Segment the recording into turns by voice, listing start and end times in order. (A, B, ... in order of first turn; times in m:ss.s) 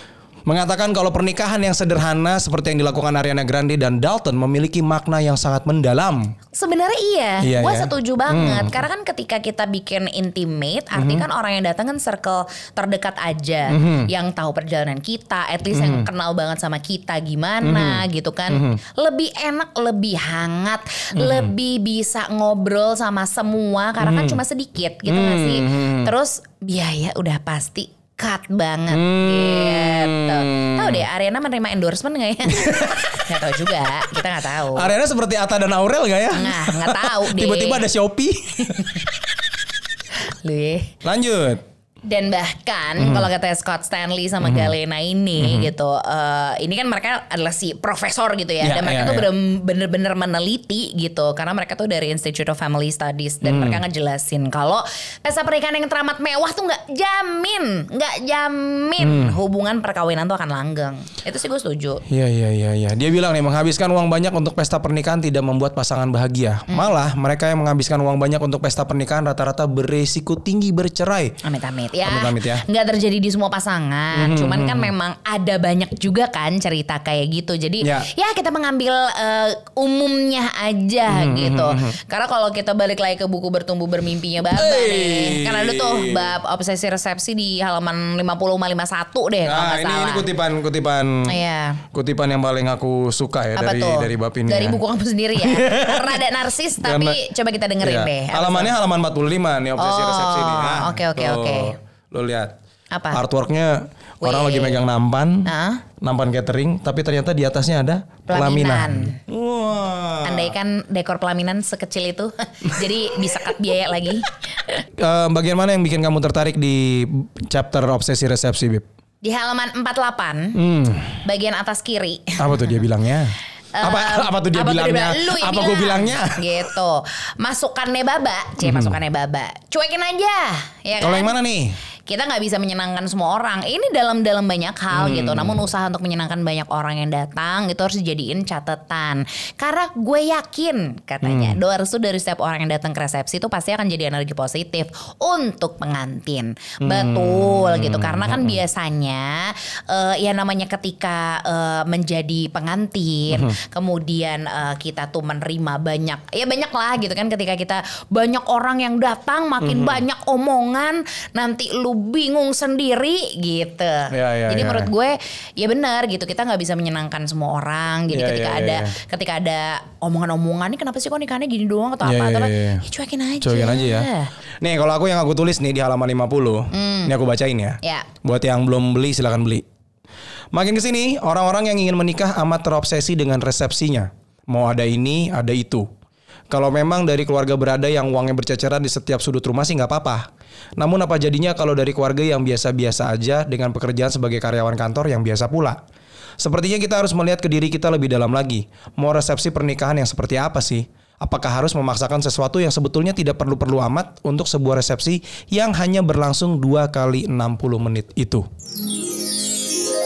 0:00.5-0:06.3 A
0:06.5-0:34.9 B
0:07.4-0:08.8 A
0:10.9-0:11.2 A
0:13.7-0:14.1 A
0:15.7-0:16.1 A
0:17.6-0:18.8 A
0:21.2-0:21.5 A
0:24.0-0:24.4 A
0:25.0-0:26.1 A
0:28.9-0:31.0 A
0:32.5-0:33.3 A
0:34.7-0:39.1 A
0:36.3-0:37.8 B
0:38.7-0:39.1 B
0:40.2-0:41.0 B
0:41.0-0:41.6 A
0:42.0-1:02.0 B
0:43.0-0:43.3 A
0:44.4-0:44.7 A
0:45.4-0:45.7 A
0:48.6-0:49.3 A
0:53.4-0:53.8 A
0:59.0-0:59.4 A
1:02.1-1:11.4 A
1:06.7-1:06.9 B
1:11.4-1:30.3 B
1:12.0-1:12.6 A
1:14.1-1:14.9 A
1:17.8-1:18.1 A
1:21.1-1:21.9 A
1:24.5-1:26.4 A
1:29.4-1:31.4 A
1:31.3-1:31.8 B
1:31.9-1:34.8 A
1:33.6-1:38.7 B
1:35.4-1:36.3 A
1:36.8-1:37.2 A
1:37.8-1:42.6 A
1:39.8-1:41.8 B
1:42.9-1:43.2 B
1:43.1-1:45.5 A
1:44.2-1:44.8 B
1:45.4-1:45.8 B
1:46.0-1:50.5 A
1:48.3-1:49.2 B
1:50.2-1:54.8 B
1:55.0-1:58.8 A
1:59.2-2:00.6 B
2:00.6-2:01.2 A
2:01.2-2:02.8 B
2:02.4-2:06.7 A
2:03.7-2:11.3 B
2:08.6-2:09.0 A
2:11.0-2:11.8 A
2:12.1-2:54.3 B
2:14.9-2:15.6 A
2:21.2-2:21.6 A
2:26.8-2:28.6 A
2:39.6-2:40.0 A
2:44.1-2:44.9 A
2:48.1-2:48.9 A
2:52.0-2:52.8 A
2:53.4-2:54.1 A
2:54.6-2:59.6 A
2:56.7-2:57.1 B
2:57.8-2:58.1 B
3:00.5-3:05.9 A
3:06.5-3:15.8 A
3:16.4-3:28.4 A